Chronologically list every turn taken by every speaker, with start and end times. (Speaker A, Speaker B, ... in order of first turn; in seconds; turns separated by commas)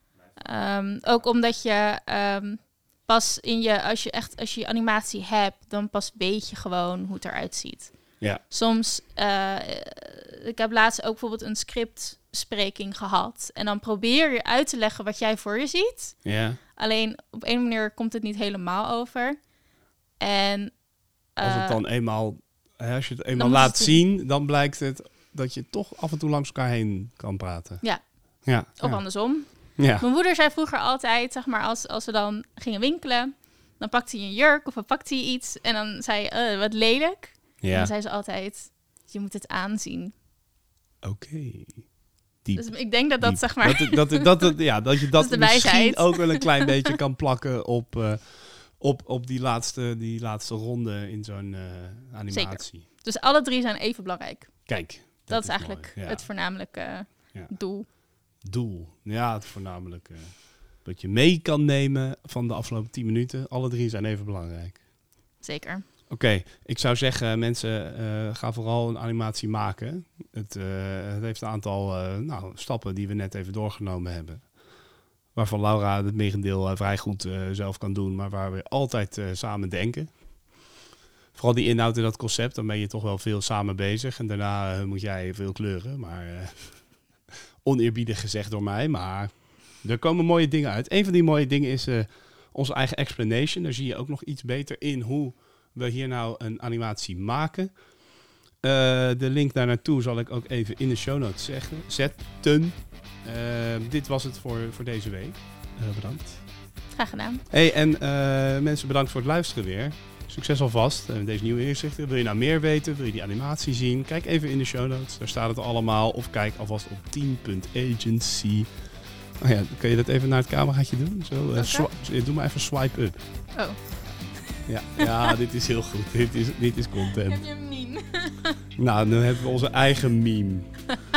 Speaker A: 0.4-16.2, Speaker B: 16.2-16.6, Speaker A: 16.8-19.4, Speaker A: 20.2-20.8, Speaker A: 21.4-21.8, Speaker B: 21.4-27.8, Speaker A: 23.3-24.0, Speaker B: 28.5-29.0, Speaker A: 28.6-40.1, Speaker B: 29.8-30.1, Speaker B: 37.6-37.9, Speaker B: 41.0-41.9, Speaker B: 42.5-52.9, Speaker A: 42.5-44.5, Speaker A: 45.1-46.9, Speaker A: 52.3-54.7, Speaker B: 54.7-56.3, Speaker A: 55.3-57.9, Speaker B: 58.5-64.8, Speaker A: 65.4-65.9, Speaker B: 66.1-74.5, Speaker B: 75.3-80.1, Speaker B: 81.3-86.8, Speaker B: 87.6-89.3, Speaker B: 89.8-97.7, Speaker B: 98.6-106.4, Speaker A: 106.9-107.5, Speaker B: 107.5-118.7, Speaker B: 119.4-123.2, Speaker A: 121.6-121.9, Speaker B: 124.7-127.4, Speaker A: 125.0-125.3, Speaker A: 127.1-128.6, Speaker B: 128.8-130.8